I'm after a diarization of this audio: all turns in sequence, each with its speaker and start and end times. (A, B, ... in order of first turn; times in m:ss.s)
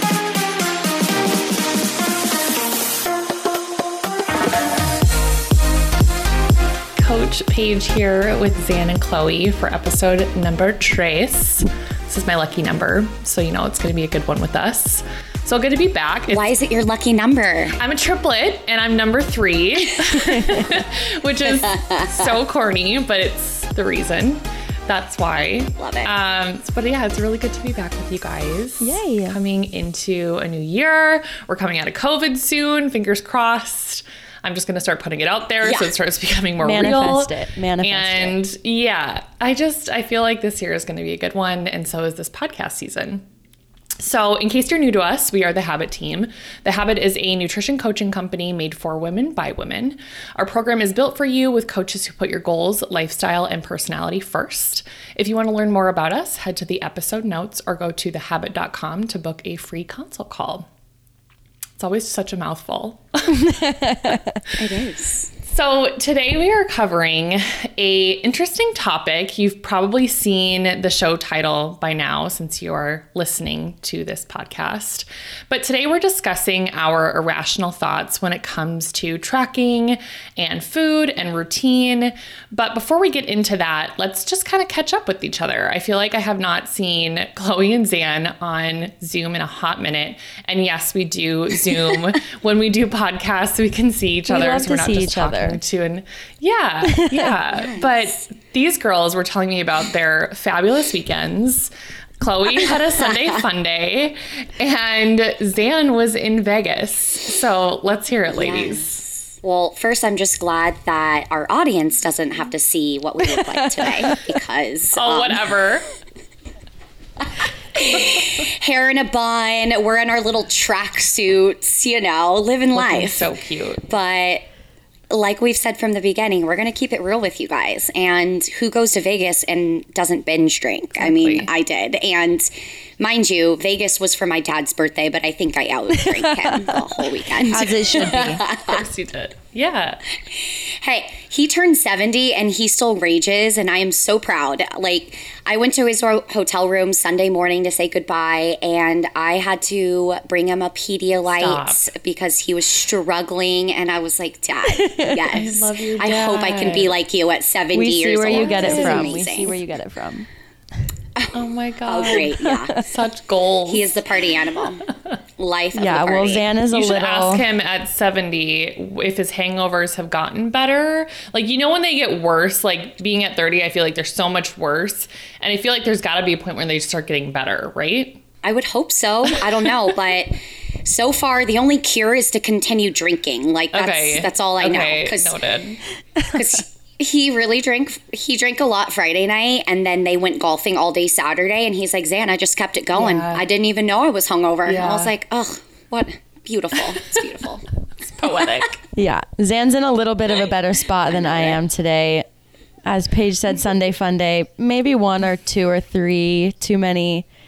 0:07.0-0:16.5 A
0:16.3-0:17.8 B
0:17.8-0:43.2 A
0:20.3-0:20.7 C
0:21.5-0:22.2 B
0:25.8-0:26.1 B
0:28.8-0:29.4 C
0:35.6-0:35.9 B
0:36.6-0:38.4 C
0:44.0-1:00.7 A
1:01.8-1:03.4 A
1:03.3-1:04.4 C
1:04.6-1:05.3 B
1:05.4-1:48.9 A
1:34.3-1:35.6 C
1:36.8-1:37.3 C
1:37.5-1:38.2 B
1:48.3-1:55.5 B
1:53.2-1:54.2 C
1:54.9-1:55.8 A
1:57.7-2:04.4 B
2:02.7-2:03.8 A
2:05.1-2:18.8 B
2:11.0-2:11.5 A
2:16.0-2:18.4 C
2:17.6-2:20.0 A
2:20.3-2:39.6 B
2:31.3-2:31.9 A
2:34.7-2:35.3 C
2:35.3-2:36.9 A
2:37.7-2:40.3 C
2:38.3-2:39.1 A
2:41.3-2:44.0 A
2:41.8-2:42.8 B
2:42.3-2:42.8 C
2:43.7-2:46.4 B
2:45.7-2:47.4 C
2:46.7-2:58.2 A
2:58.4-3:05.4 B
3:03.7-3:05.8 A
3:06.3-3:17.7 B
3:12.9-3:13.4 A
3:14.6-3:15.1 A
3:18.1-3:18.8 A
3:18.9-3:22.2 C
3:21.1-3:21.6 B
3:22.8-3:27.2 C